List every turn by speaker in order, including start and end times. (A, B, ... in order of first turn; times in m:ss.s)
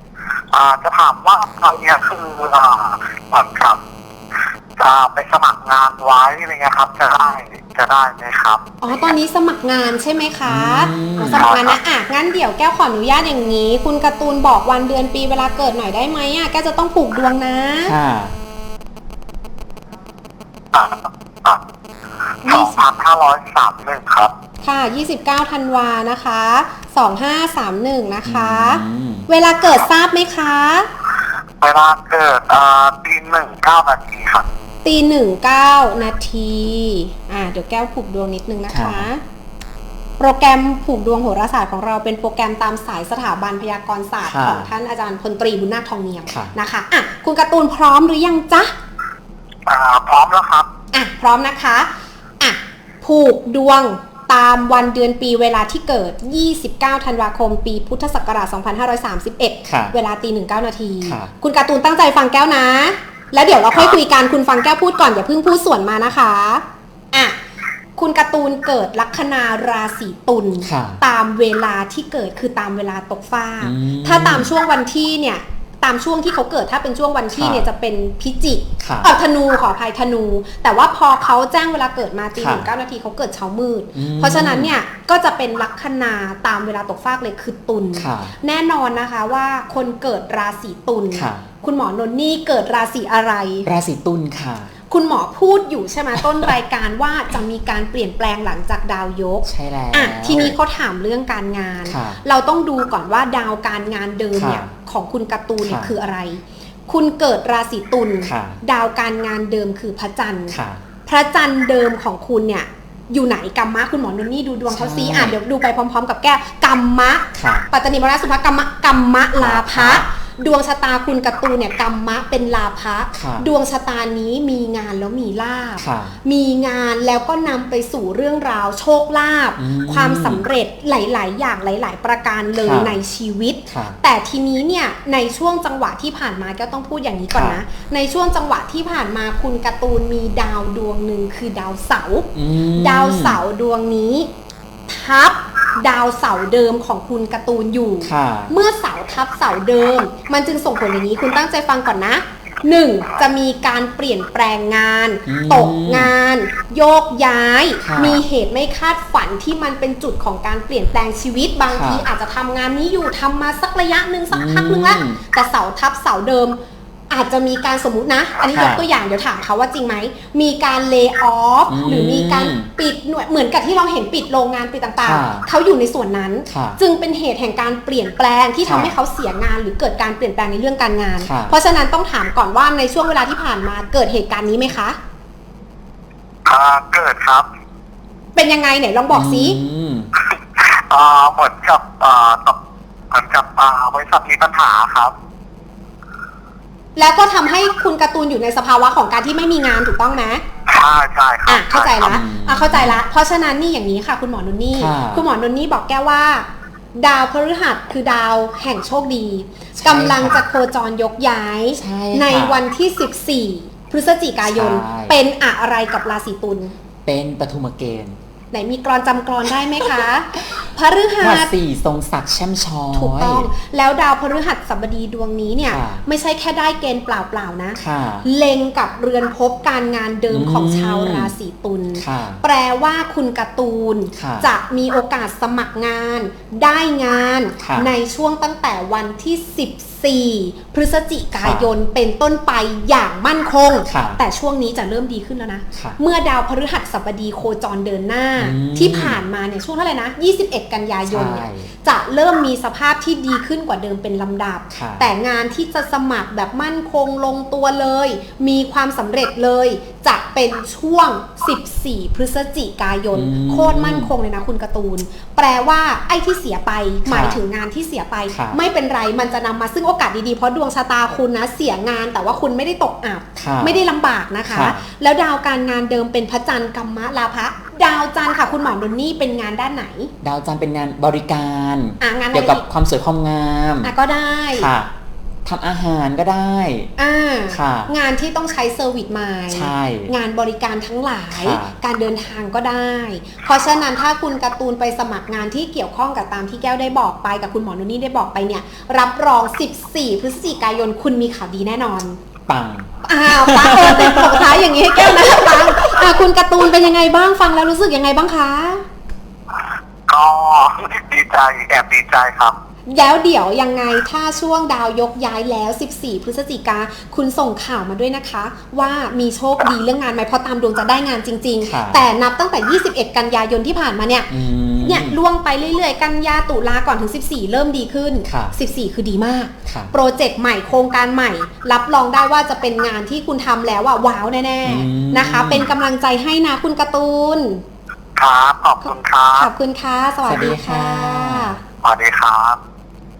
0:00.5-0:03.8 A
0:04.8-0:08.6 A
0:08.8-0:18.0 B
0:10.4-0:11.5 C
0:11.3-0:11.8 A
0:17.8-0:18.3 C
0:20.7-0:21.6 A
0:22.4-0:24.3 A
0:22.4-0:22.8 B
0:24.6-0:30.9 B
0:28.2-0:29.3 C
0:31.6-0:34.5 A
0:34.8-0:39.2 B
0:38.7-0:39.1 C
0:40.2-0:48.7 B
0:44.2-0:44.7 C
0:46.3-0:46.5 C
0:49.7-0:50.7 A
0:50.9-1:07.4 B
0:59.6-0:59.9 C
1:01.0-1:01.3 C
1:08.0-1:33.7 B
1:10.6-1:11.0 C
1:13.6-1:14.5 C
1:17.3-1:17.7 C
1:18.8-1:19.1 C
1:22.4-1:22.7 C
1:23.9-1:24.7 C
1:27.9-1:28.3 C
1:31.1-1:31.5 C
1:33.6-1:34.7 C
1:34.9-2:24.3 B
1:39.4-1:40.6 C
1:41.8-1:42.2 C
1:44.3-1:44.7 C
1:45.6-1:45.9 C
1:48.2-1:48.6 C
1:50.5-1:50.8 C
1:54.7-1:55.3 C
1:57.3-1:57.6 C
1:59.4-2:00.0 C
2:03.1-2:03.5 C
2:05.8-2:06.2 C
2:09.6-2:10.4 C
2:12.5-2:13.0 C
2:13.7-2:14.0 C
2:17.3-2:17.6 C
2:22.3-2:23.4 C
2:24.9-2:46.6 B
2:28.0-2:28.5 C
2:35.2-2:36.1 C
2:37.8-2:38.2 C
2:41.7-2:42.1 C
2:44.3-2:45.2 C
2:47.1-3:05.0 B
2:48.5-2:48.8 C
2:51.7-2:52.7 C
2:55.0-2:55.4 C
2:56.5-2:56.8 C
2:58.6-2:59.0 C
3:01.2-3:01.5 C
3:06.4-3:07.5 A
3:08.3-3:09.6 B
3:09.1-3:10.1 C
3:10.6-3:12.6 A
3:13.1-3:15.1 A
3:17.0-3:20.4 B
3:20.7-3:22.2 A
3:21.5-3:36.7 B
3:22.0-3:23.0 C
3:24.7-3:25.2 C
3:29.8-3:30.4 C
3:31.7-3:32.6 C
3:34.4-3:35.2 C
3:37.0-3:38.2 C
3:38.5-3:41.5 B
3:41.2-3:43.5 C
3:42.9-4:40.1 B
3:45.7-3:46.0 C
3:47.8-3:48.2 C
3:50.3-3:51.3 C
3:51.9-3:52.4 C
3:54.2-3:54.5 C
3:57.6-3:57.9 C
4:01.4-4:01.7 C
4:03.8-4:04.2 C
4:05.7-4:06.0 C
4:08.4-4:09.2 C
4:11.0-4:11.7 C
4:14.7-4:15.1 C
4:23.1-4:24.1 C
4:27.0-4:27.4 C
4:28.3-4:28.6 C
4:33.4-4:33.8 C
4:34.4-4:34.8 C
4:40.2-4:43.9 C
4:42.0-4:42.6 B
4:43.8-4:44.7 B
4:44.5-4:44.9 C
4:45.4-4:46.9 C
4:47.0-5:02.2 B
4:47.5-4:47.9 C
4:49.5-4:50.1 C
4:51.3-4:51.8 C
5:02.5-5:06.2 C
5:03.0-5:08.8 B
5:10.1-5:12.6 A
5:12.9-5:37.6 B
5:21.6-5:22.0 C
5:24.3-5:25.2 C
5:28.2-5:28.6 C
5:29.6-5:29.9 C
5:34.6-5:35.7 C
5:38.2-5:39.5 A
5:38.8-5:41.6 B
5:40.2-5:41.6 C
5:41.8-5:42.6 A